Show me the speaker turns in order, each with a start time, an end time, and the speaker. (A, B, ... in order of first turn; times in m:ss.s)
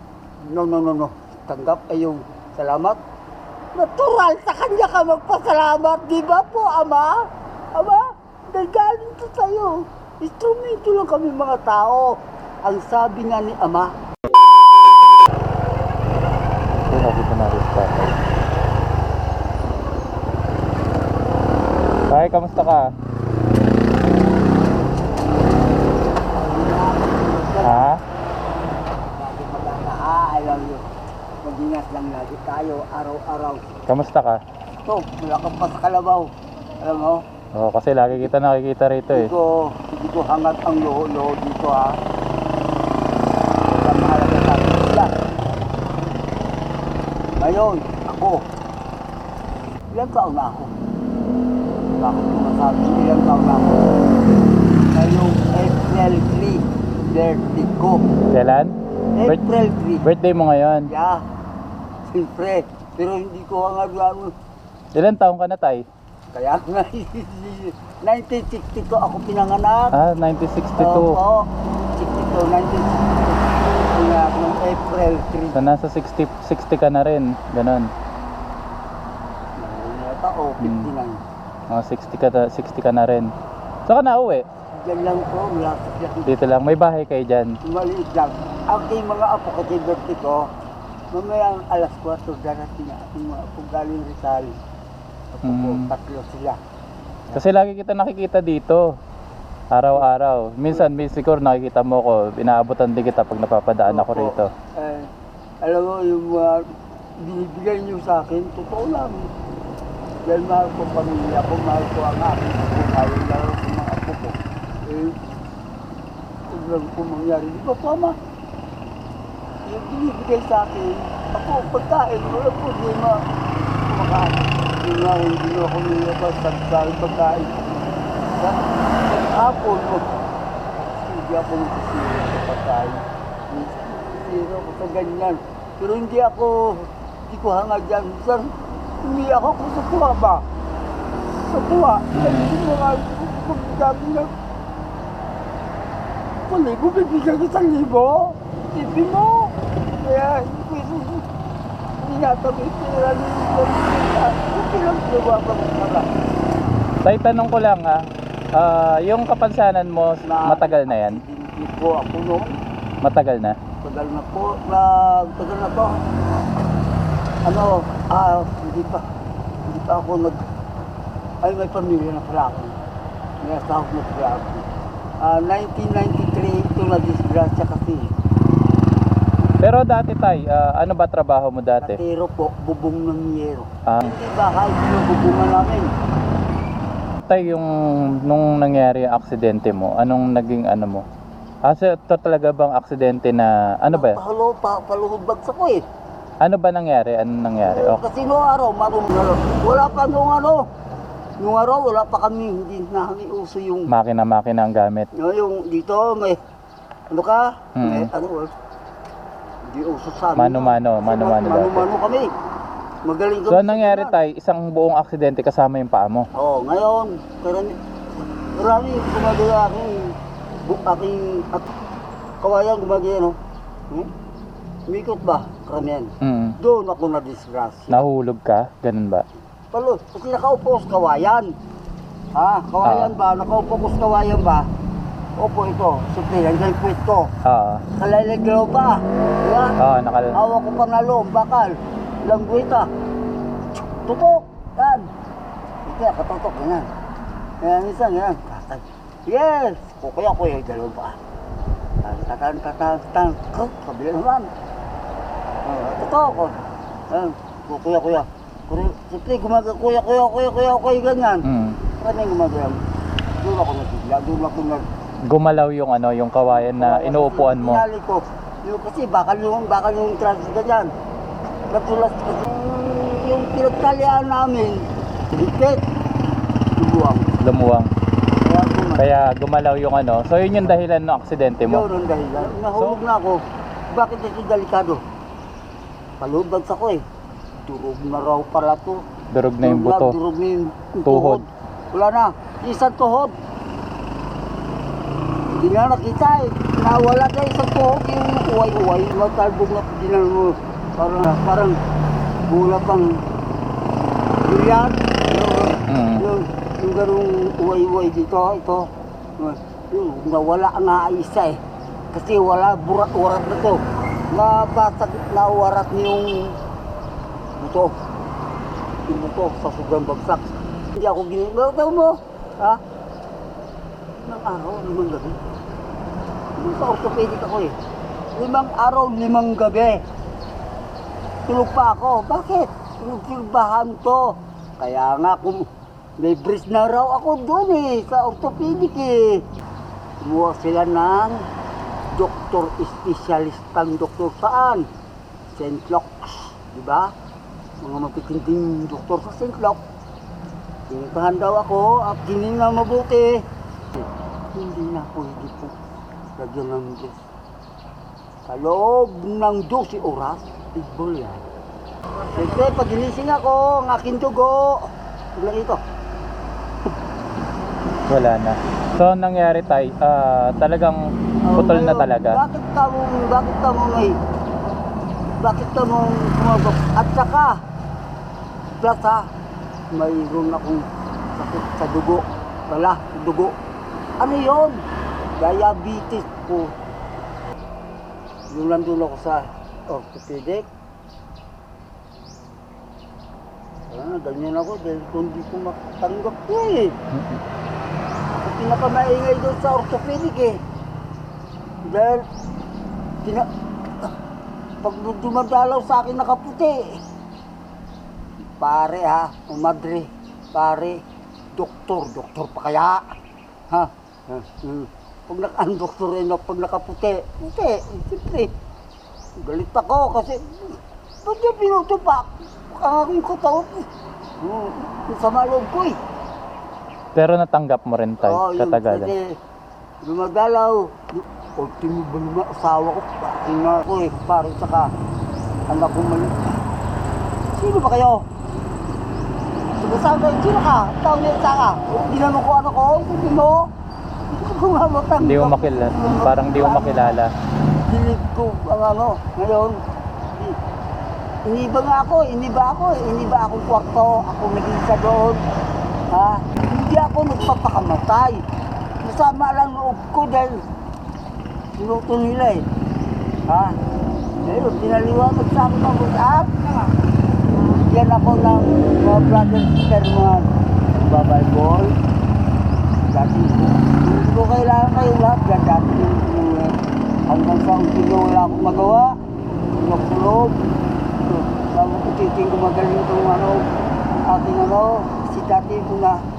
0:00.4-0:03.0 A
0:03.7-0:07.1 A
0:07.7-0:13.9 A
0:16.9-0:18.2 B
0:22.1-0:22.9 B
0:26.4-0:27.9 A
0:27.6-0:28.0 B
0:29.1-0:30.8 A
0:31.4-0:33.6 A
0:33.9-0:34.4 B
0:34.8-0:36.3 A
0:36.8-0:37.2 A
0:37.5-0:39.3 B
0:39.1-0:42.0 A
0:43.7-0:45.1 A
0:47.4-0:48.4 A
0:49.9-0:50.7 A
0:52.0-0:54.1 A
0:54.9-0:58.0 A
0:58.3-0:58.7 B
0:59.1-1:00.0 A
1:00.0-1:00.9 B
1:00.9-1:01.2 A
1:02.1-1:04.3 A
1:04.9-1:05.8 B
1:06.3-1:10.0 A
1:09.9-1:11.2 B
1:10.8-1:15.6 A
1:15.5-1:17.9 B
1:19.6-1:21.2 A
1:20.6-1:20.9 B
1:21.7-1:23.3 B
1:23.8-1:24.4 B
1:24.8-1:26.3 A
1:26.2-1:27.6 B
1:27.6-1:30.5 A
1:31.1-1:34.6 A
1:35.3-1:36.6 A
1:35.4-1:35.9 B
1:37.3-1:38.8 B
1:39.7-1:44.5 B
1:43.8-1:45.1 A
1:45.6-1:46.7 A
1:47.2-1:49.3 A
1:50.2-1:55.2 A
1:56.5-1:58.2 A
1:59.6-2:03.2 A
2:03.8-2:07.6 A
2:08.3-2:10.0 A
2:11.0-2:20.4 A
2:21.3-2:24.3 A
2:26.5-2:31.2 A
2:32.0-2:36.1 A
2:37.0-2:38.0 B
2:38.5-2:41.2 B
2:40.2-2:42.6 A
2:43.0-2:43.6 B
2:43.8-2:45.9 A
2:47.4-2:49.0 A
2:49.7-2:50.4 A
2:51.4-2:52.8 A
2:53.4-2:54.7 A
2:55.2-2:58.1 A
2:59.6-3:02.0 B
3:01.8-3:05.9 A
3:03.8-3:04.1 B
3:07.3-3:11.0 B
3:11.7-3:14.2 B
3:13.9-3:15.8 A
3:16.4-3:18.0 B
3:17.6-3:20.6 A
3:21.4-3:23.9 A
3:23.9-3:25.1 B
3:25.1-3:26.4 A
3:27.1-3:28.5 A
3:27.8-3:28.1 B
3:29.6-3:32.3 A
3:30.4-3:31.9 B
3:33.0-3:34.2 A
3:33.5-3:36.3 B
3:36.3-3:37.7 A
3:38.3-3:41.7 A
3:42.4-3:43.4 A
3:44.9-3:48.0 A
3:46.2-3:46.6 B
3:47.9-3:49.2 B
3:49.7-3:51.5 A
3:52.3-3:54.7 A
3:52.8-3:53.1 B
3:55.4-3:57.3 A
3:57.4-3:57.8 B
3:57.9-3:59.7 A
3:59.8-4:00.4 B
4:00.3-4:02.9 A
4:03.8-4:05.1 A
4:05.8-4:06.9 A
4:07.6-4:11.2 A
4:12.0-4:14.5 A
4:15.6-4:16.5 A
4:17.1-4:22.8 A
4:21.4-4:21.8 B
4:23.4-4:24.8 A
4:25.3-4:27.8 B
4:26.5-4:30.9 A
4:31.7-4:35.8 A
4:36.8-4:37.3 A
4:37.4-4:37.9 B
4:38.4-4:39.0 A
4:39.0-4:41.8 B
4:41.6-4:45.0 A
4:46.2-4:47.0 A
4:47.6-4:49.0 A
4:49.3-4:50.1 B
4:49.6-4:53.3 A
4:51.0-4:51.4 B
4:55.5-5:01.8 A
5:02.4-5:03.2 A
5:04.4-5:11.6 A
5:05.9-5:06.2 B
5:12.1-5:13.8 A
5:14.3-5:16.6 A
5:17.6-5:17.9 A
5:19.1-5:22.8 A
5:24.2-5:25.4 A
5:26.6-5:27.8 A
5:28.4-5:30.0 A
5:31.5-5:34.2 A
5:34.8-5:35.7 A
5:36.2-5:39.4 A
5:40.2-5:41.4 A
5:42.1-5:44.9 A
5:45.5-5:47.1 A
5:47.8-5:49.8 A
5:50.9-5:55.8 A
5:56.4-5:57.2 A
5:58.5-6:01.4 A
6:02.3-6:05.8 A
6:08.1-6:11.0 B
6:11.4-6:14.2 A
6:11.5-6:12.4 B
6:15.4-6:17.6 A
6:18.8-6:19.3 A
6:19.9-6:23.5 A
6:24.2-6:24.8 A
6:25.4-6:26.7 A
6:28.5-6:30.7 A
6:33.9-6:37.0 A
6:37.1-6:37.4 B
6:38.4-6:40.6 A
6:41.9-6:42.2 A
6:44.8-6:47.0 A
6:48.6-6:51.0 A
6:51.5-6:53.1 A
6:53.7-6:58.5 A
6:59.4-7:03.8 A
7:04.4-7:06.0 A
7:07.1-7:09.1 B
7:08.2-7:09.3 A
7:10.0-7:14.9 A
7:15.7-7:16.6 A
7:17.5-7:18.2 A
7:19.8-7:23.7 A
7:24.3-7:27.2 A
7:25.2-7:27.3 B
7:27.9-7:29.8 A
7:31.4-7:35.4 A
7:36.1-7:38.4 A
7:39.0-7:40.6 A
7:41.8-7:42.6 A
7:43.5-7:43.8 A
7:44.4-7:47.0 A
7:47.6-7:51.9 A
7:53.0-7:59.2 A
7:59.7-8:00.6 A
8:01.2-8:03.7 A
8:04.2-8:06.2 A